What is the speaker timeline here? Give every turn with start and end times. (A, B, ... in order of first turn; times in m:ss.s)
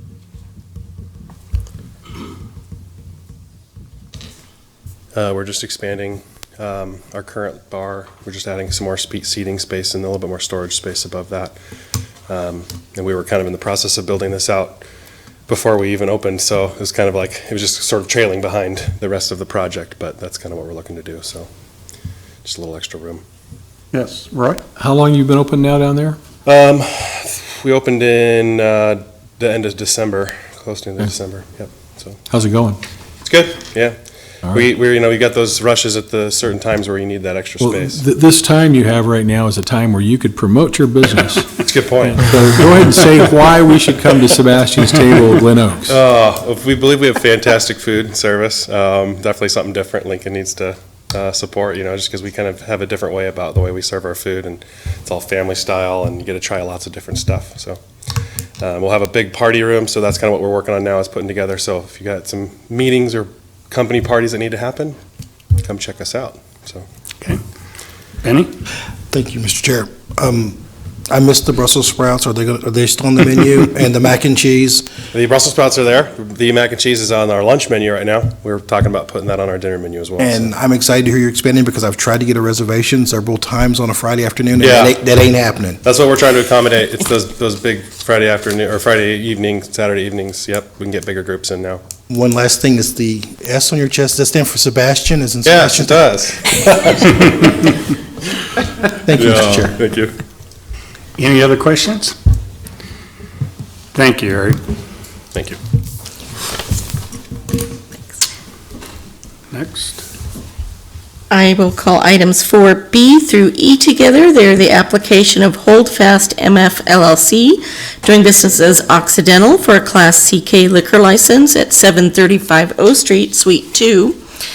0:05.1-0:11.6 A
0:12.3-0:14.9 A
0:15.5-0:21.5 A
0:22.4-0:23.2 A
0:23.9-0:24.6 B
0:24.8-0:26.2 C
0:26.5-0:32.2 A
0:32.3-0:32.8 C
0:33.2-0:34.0 A
0:34.6-0:38.0 A
0:37.6-0:46.0 C
0:41.6-0:42.2 A
0:45.9-0:57.8 A
0:58.6-1:05.0 A
1:05.6-1:06.9 A
1:08.2-1:08.5 B
1:09.1-1:10.6 D
1:11.1-1:14.9 D
1:15.1-1:20.5 A
1:20.2-1:25.8 D
1:24.6-1:25.0 A
1:25.8-1:31.8 A
1:32.1-1:36.1 D
1:35.4-1:37.5 A
1:38.9-1:39.8 D
1:39.2-1:40.2 A
1:41.2-1:42.2 B
1:43.9-1:44.6 B
1:45.3-1:45.6 A
1:49.5-1:50.1 B
1:51.3-2:04.2 E